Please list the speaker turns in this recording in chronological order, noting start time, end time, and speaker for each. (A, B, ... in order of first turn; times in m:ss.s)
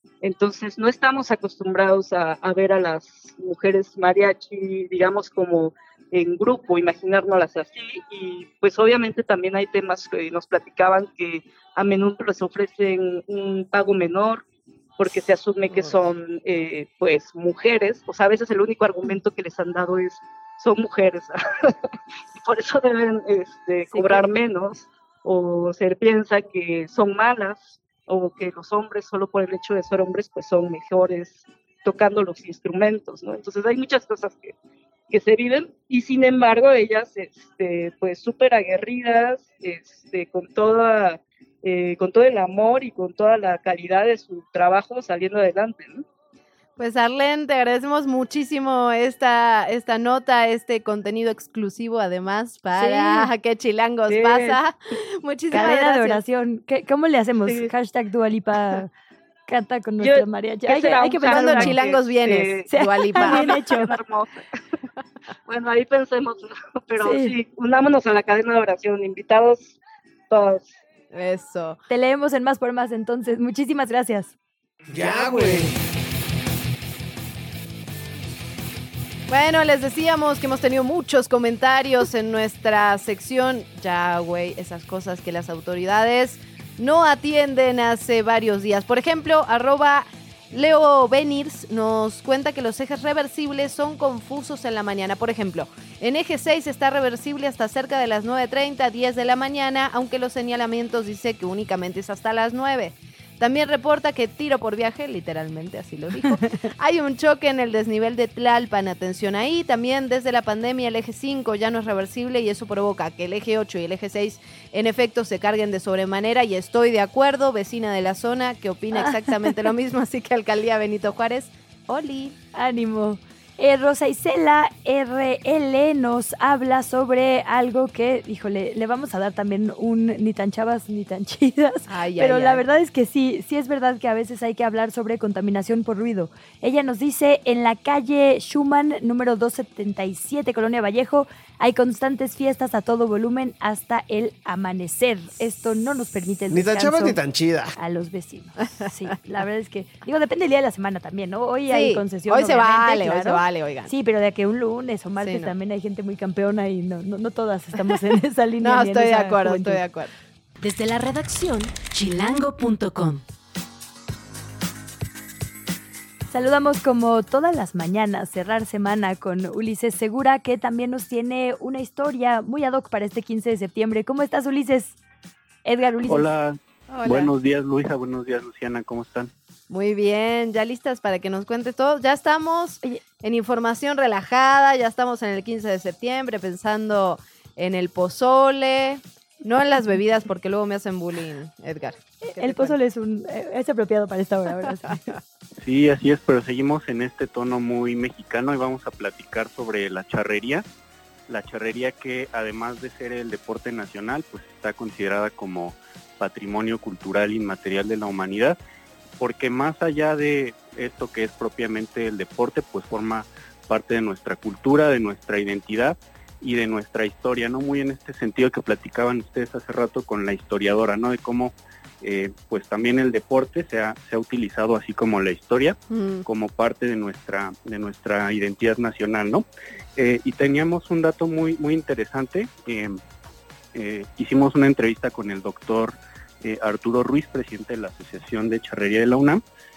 0:00.2-0:14.4 A
0:15.0-0:21.7 A
0:22.3-0:34.5 A
0:23.9-0:24.2 B
0:35.1-0:46.0 A
0:46.8-0:56.2 C
0:52.7-0:53.3 B
0:54.1-0:54.6 A
0:55.5-0:58.9 B
0:59.5-1:01.8 B
1:00.0-1:04.3 A
1:00.8-1:03.7 C
1:02.7-1:03.9 B
1:05.5-1:09.8 A
1:07.0-1:07.3 B
1:10.3-1:10.8 A
1:11.1-1:11.8 C
1:11.9-1:14.3 B
1:14.9-1:15.8 D
1:19.3-2:02.3 C
2:02.5-2:27.2 B
2:11.9-2:12.6 C
2:26.5-2:27.7 D
2:27.8-2:39.8 B
2:31.7-2:33.9 C
2:35.2-2:35.5 C
2:38.6-2:40.1 C
2:40.6-2:43.2 E
2:46.3-2:55.0 B
2:55.6-2:56.3 B
2:56.0-2:59.3 F
2:56.9-2:57.3 C
2:59.7-3:12.8 C
3:12.2-3:15.1 B
3:14.6-3:15.0 C
3:15.6-3:20.6 F
3:21.3-3:28.6 F
3:29.2-3:53.0 F
3:45.9-3:46.2 C
3:53.7-3:59.4 F